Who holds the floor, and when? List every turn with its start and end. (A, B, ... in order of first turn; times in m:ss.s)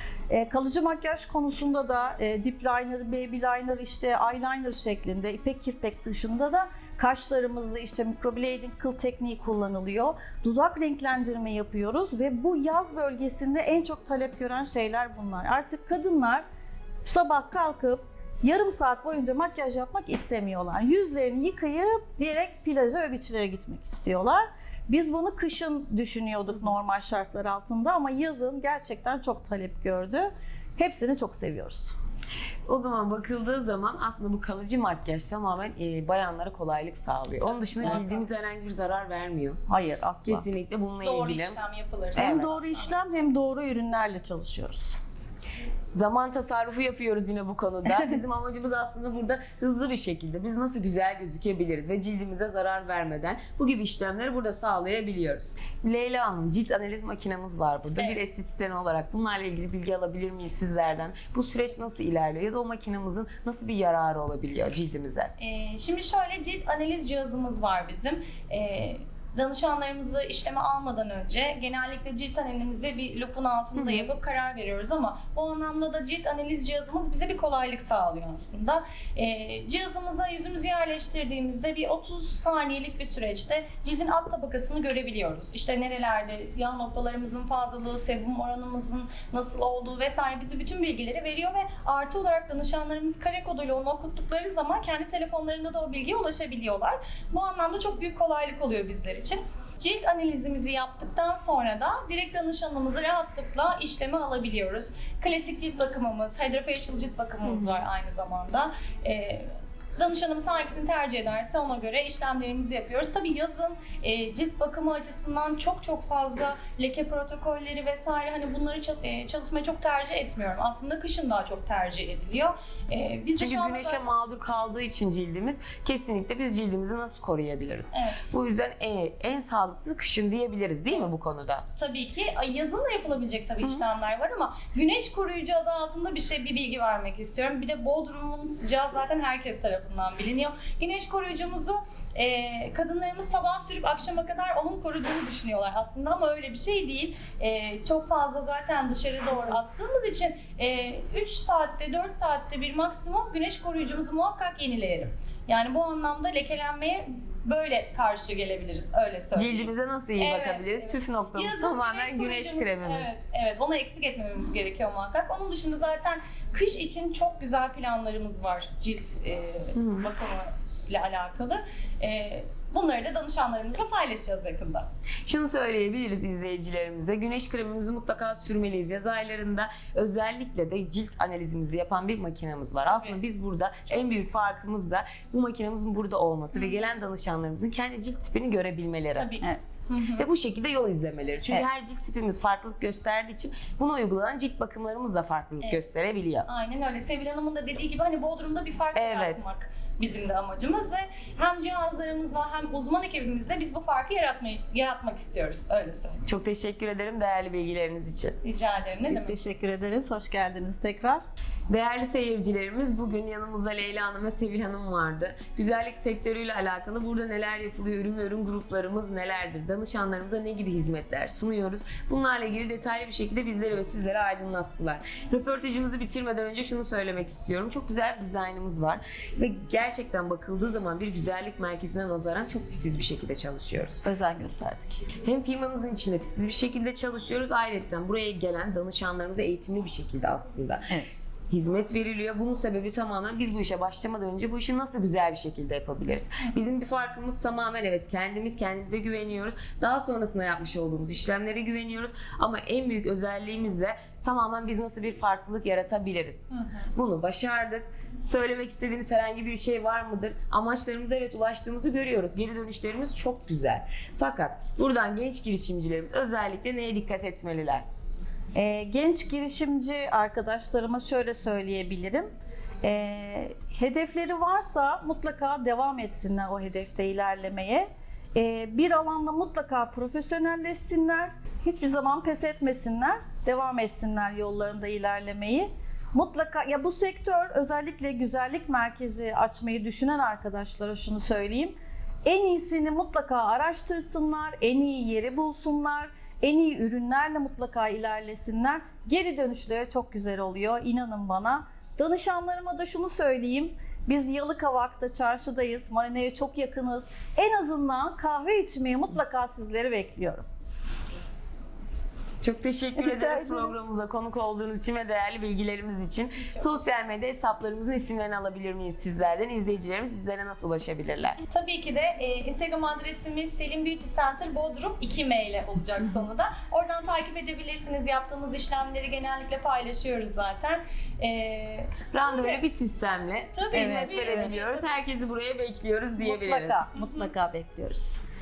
0:00.3-0:16.4 A
0:17.0-0:31.9 A
0:32.7-0:39.6 B
0:37.4-0:38.2 C
0:39.7-0:40.4 A
0:40.2-0:41.6 B
0:41.0-0:42.9 C
0:42.1-0:42.5 B
0:42.2-0:44.9 A
0:45.9-1:05.3 B
0:47.9-0:48.2 A
1:05.4-2:04.1 C
1:13.8-1:14.1 B
2:03.4-2:11.6 B
2:07.9-2:08.2 C
2:11.8-2:54.8 C
2:39.3-2:43.1 B
2:49.7-2:50.1 B
2:55.2-3:09.3 B
3:02.8-3:03.2 C
3:09.2-3:10.3 C
3:10.2-3:16.5 B
3:16.5-3:26.2 C
3:18.9-3:19.5 B
3:26.2-3:28.4 B
3:28.4-3:29.4 C
3:29.1-3:31.2 A
3:31.7-3:54.0 B
3:54.0-3:55.0 A
3:55.2-4:00.9 B
4:01.5-4:27.8 B
4:28.5-4:32.3 A
4:32.8-4:51.7 A
4:52.2-5:10.4 A
5:12.4-5:21.4 B
5:13.0-5:13.7 A
5:16.4-5:16.8 C
5:21.5-5:32.6 C
5:32.1-5:36.8 B
5:33.5-5:34.9 C
5:33.7-5:34.5 A
5:36.2-5:38.2 A
5:37.0-5:37.3 C